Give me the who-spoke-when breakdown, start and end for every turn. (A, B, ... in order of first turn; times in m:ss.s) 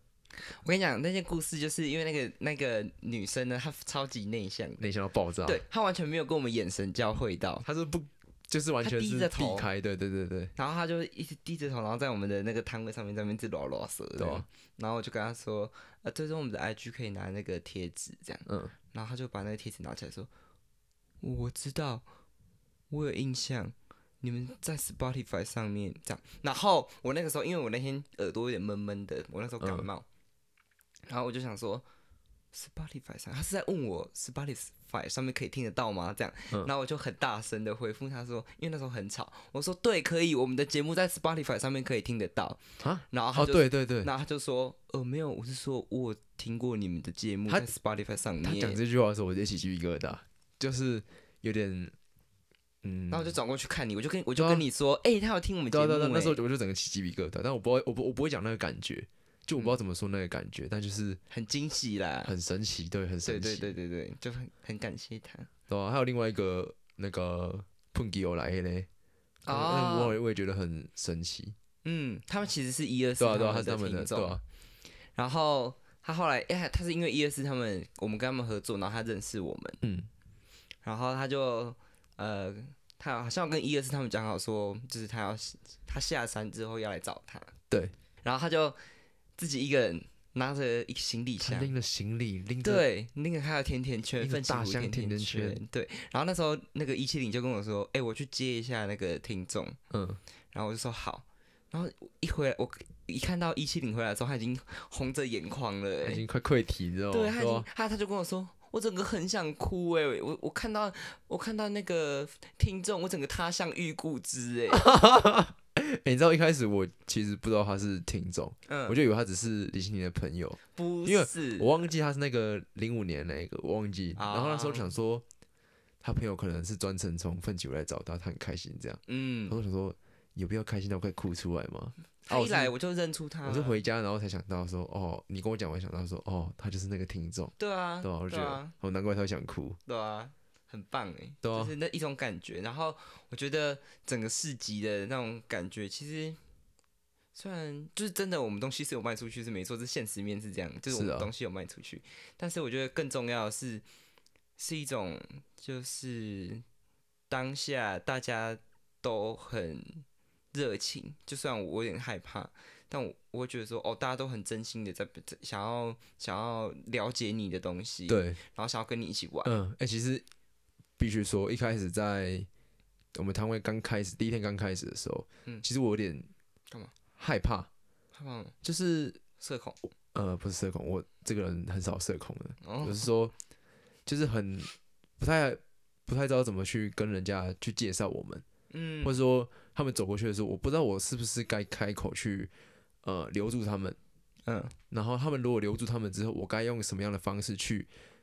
0:00.4-0:04.8 A
0:04.8-0:05.6 B
0:05.4-0:07.6 A
0:07.6-0:10.5 B
0:08.8-0:09.7 A
0:10.6-0:20.3 A
0:14.2-0:14.5 B
0:18.5-0:18.7 B
0:21.2-0:22.0 A
0:22.9-0:30.1 A
0:29.6-0:29.9 B
0:31.1-0:31.9 A
0:32.5-0:48.8 A
0:42.8-0:44.1 B
0:48.4-0:52.0 B
0:52.8-0:53.4 B
0:53.1-0:56.4 A
0:54.4-0:54.6 B
0:55.7-1:01.2 B
1:01.3-1:02.3 A
1:02.2-1:03.7 B
1:03.2-1:05.5 A
1:05.7-1:08.9 B
1:09.5-1:10.2 A
1:09.5-1:11.6 B
1:11.8-1:14.4 A
1:13.2-1:14.4 B
1:15.2-1:19.8 A
1:19.8-1:20.1 B
1:20.8-1:27.5 A
1:28.2-1:28.8 A
1:29.4-1:31.7 A
1:31.4-1:32.8 B
1:32.6-1:39.8 A
1:34.2-1:35.6 B
1:39.9-1:40.2 B
1:40.5-1:46.2 A
1:46.0-1:47.7 B
1:47.1-1:54.9 A
1:54.7-2:05.2 B
1:58.7-1:59.0 A
2:00.8-2:01.8 A
2:04.2-2:04.9 A
2:06.0-2:12.7 B
2:09.1-2:09.6 A
2:12.3-2:13.8 A
2:13.5-2:19.8 B
2:17.6-2:18.7 A
2:19.9-2:26.4 A
2:21.4-2:21.7 B
2:27.4-2:33.8 A
2:30.9-2:31.3 B
2:34.6-2:36.6 A
2:37.3-2:49.5 A
2:48.1-2:48.4 B
2:49.4-2:50.2 B
2:51.0-2:52.5 B
2:53.1-2:56.3 B
2:57.2-2:57.7 B
2:58.1-2:58.6 A
2:58.6-2:59.2 B
2:59.4-2:59.8 A
3:00.1-3:03.3 B
3:02.6-3:03.0 A
3:04.1-3:08.4 B
3:08.7-3:09.2 A
3:09.0-3:12.5 B
3:13.0-3:14.0 B
3:14.5-3:14.8 A
3:14.9-3:17.9 B